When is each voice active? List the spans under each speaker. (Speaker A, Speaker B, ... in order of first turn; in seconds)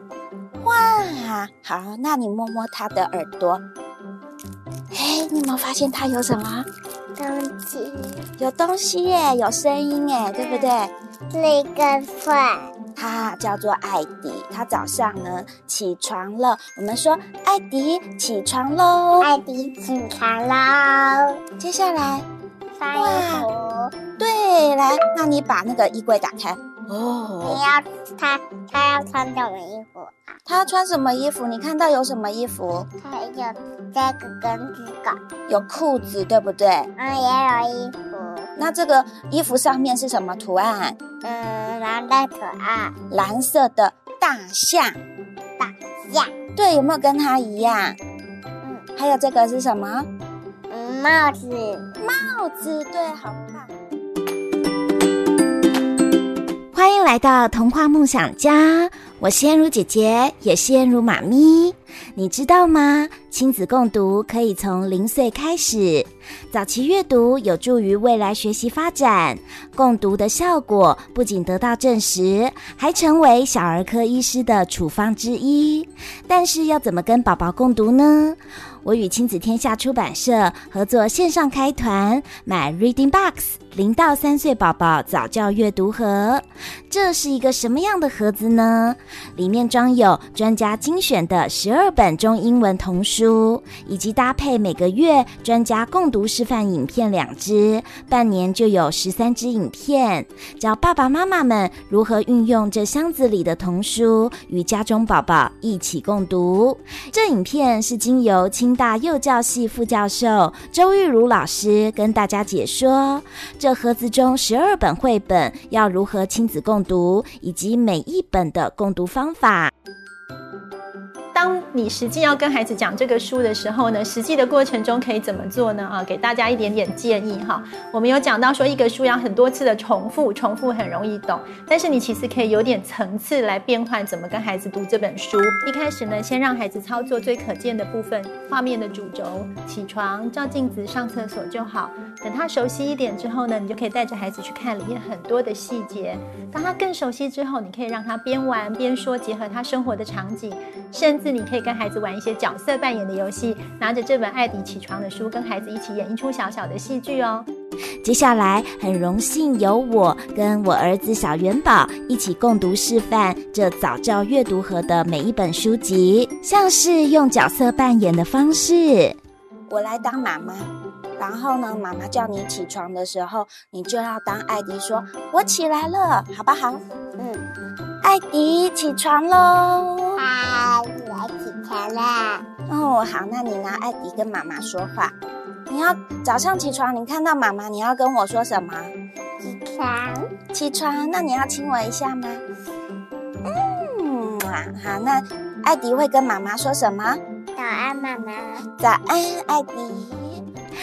Speaker A: 0.6-3.6, 4.9-6.7, 8.4-10.9, 13.0-19.3, 21.6-22.3, 22.9-23.5, 24.2-27.6, 30.5-32.9, 35.5-36.9, 38.6-41.0, 43.1-45.0, 46.6-48.0, 49.0-50.1, 52.0-53.7, 169.7-176.8, 178.0-180.2, 182.7-185.1, 185.7-188.9, 190.5-192.4, 193.4-197.2, 198.8-200.4
Speaker B: 7.2-8.3, 10.4-10.7, 11.3-12.7, 19.2-21.4, 22.8-23.9, 27.4-30.4, 33.0-35.2, 37.0-38.5, 41.2-43.0, 45.6-46.3, 50.7-51.9, 177.2-177.5, 180.2-182.4, 189.4-190.3, 197.6-198.7
Speaker C: 56.7-119.7, 158.0-169.2
Speaker D: 121.3-157.5